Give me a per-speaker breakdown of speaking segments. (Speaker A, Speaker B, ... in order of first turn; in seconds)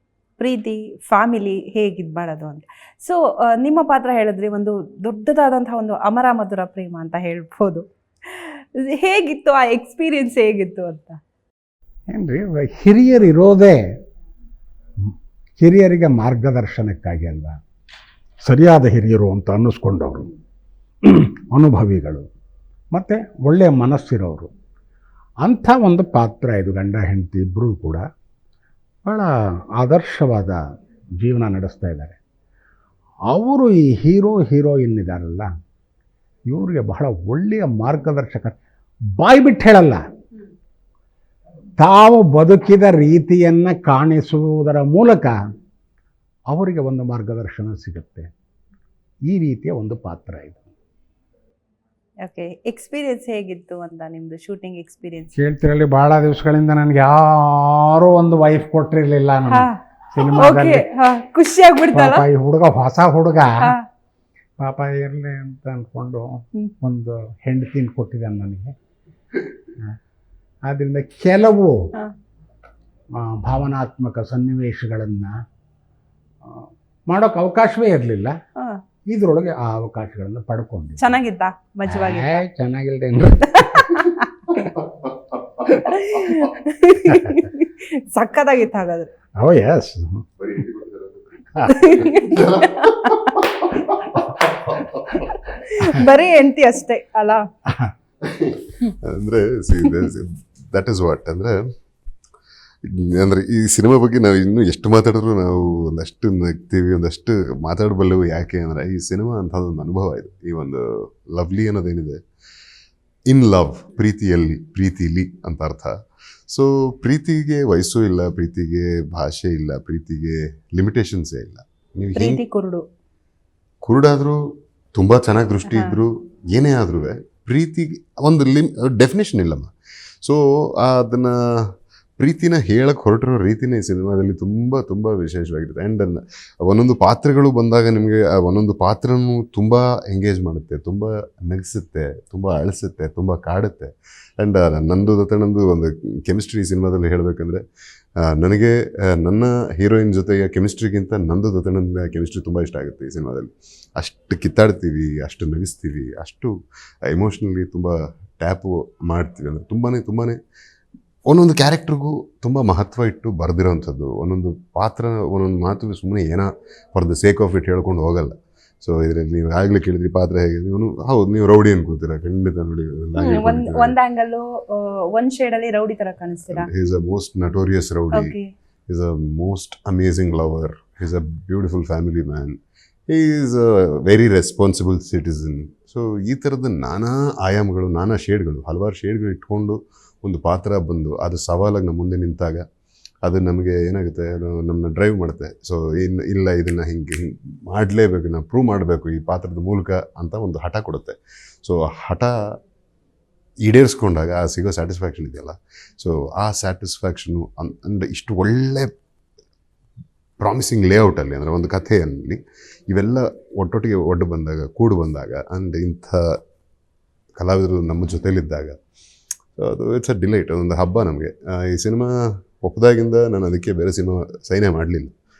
Speaker A: 0.4-11.2, 52.2-55.4, 59.5-59.8, 60.3-62.2, 63.6-63.8, 81.0-82.4, 83.6-84.2, 85.7-89.1, 91.7-93.5, 95.1-97.4, 122.2-122.8, 125.6-126.0, 173.2-176.7, 178.1-178.5
Speaker B: 12.1-13.8, 15.6-17.6, 18.4-20.3, 21.0-22.3, 22.9-24.5, 25.4-28.0, 29.0-30.6, 31.2-32.2, 33.3-35.5, 36.5-38.5, 39.2-40.0, 41.8-45.4, 46.5-48.3, 49.3-50.7, 55.4-60.8, 61.9-63.8, 64.6-68.7, 70.7-71.7, 73.2-75.3, 76.4-78.3, 79.1-81.1, 81.9-84.1, 87.1-87.4, 89.4-90.2, 91.5-92.1
Speaker C: 90.4-95.1, 98.2-101.6, 102.8-112.2, 113.3-115.9, 116.5-122.4, 123.8-124.4, 124.9-129.7, 130.2-147.6, 148.2-156.5, 157.0-160.4, 161.2-173.9, 176.5-178.3, 178.9-182.6, 183.1-192.6, 193.2-202.3, 203.7-208.9, 210.4-216.2, 217.4-218.8, 219.6-225.1